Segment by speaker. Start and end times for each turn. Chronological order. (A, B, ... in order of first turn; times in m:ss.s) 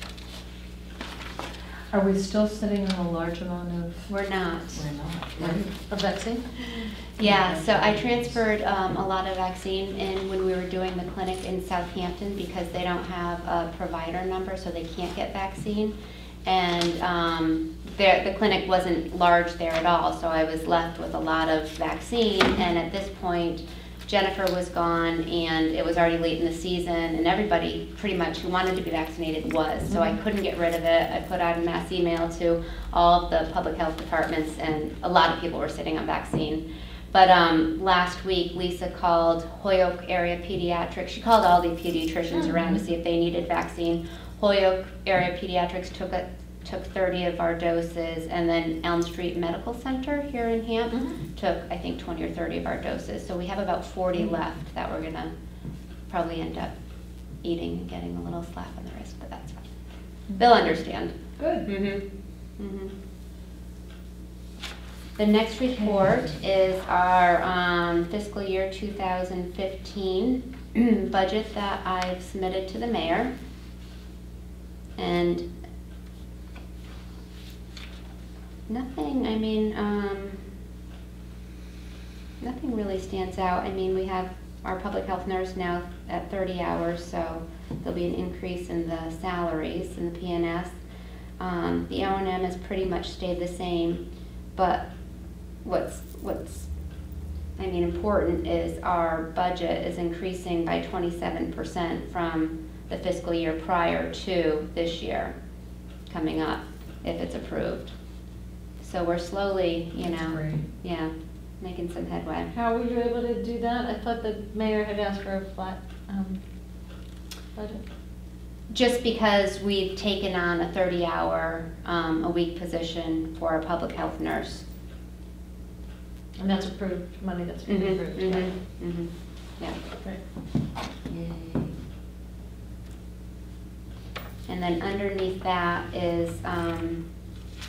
0:01.9-0:04.1 A
0:04.1-0:04.9 B
0:04.7-0:05.7 A
0:05.4-0:06.4 C
0:06.6-0:55.3 B
0:07.2-0:08.4 A
0:50.9-0:51.2 C
0:56.1-0:56.7 B
0:57.4-0:59.6 B
1:00.3-1:02.0 B
1:01.4-1:01.7 A
1:02.6-1:02.9 B
1:05.2-1:13.3 B
1:05.7-1:06.3 A
1:15.0-1:15.5 B
1:18.7-1:20.5 B
1:22.4-1:30.7 B
1:31.4-1:34.0 B
1:34.6-1:34.8 B
1:35.6-1:36.7 B
1:37.6-1:45.4 B
1:46.1-1:47.9 B
1:48.8-1:52.5 B
1:50.0-1:50.6 A
1:52.5-1:56.4 C
1:57.6-1:57.8 C
1:58.7-2:04.6 B
2:06.4-2:08.5 C
2:07.6-2:09.8 B
2:11.1-2:11.7 A
2:14.5-2:17.0 B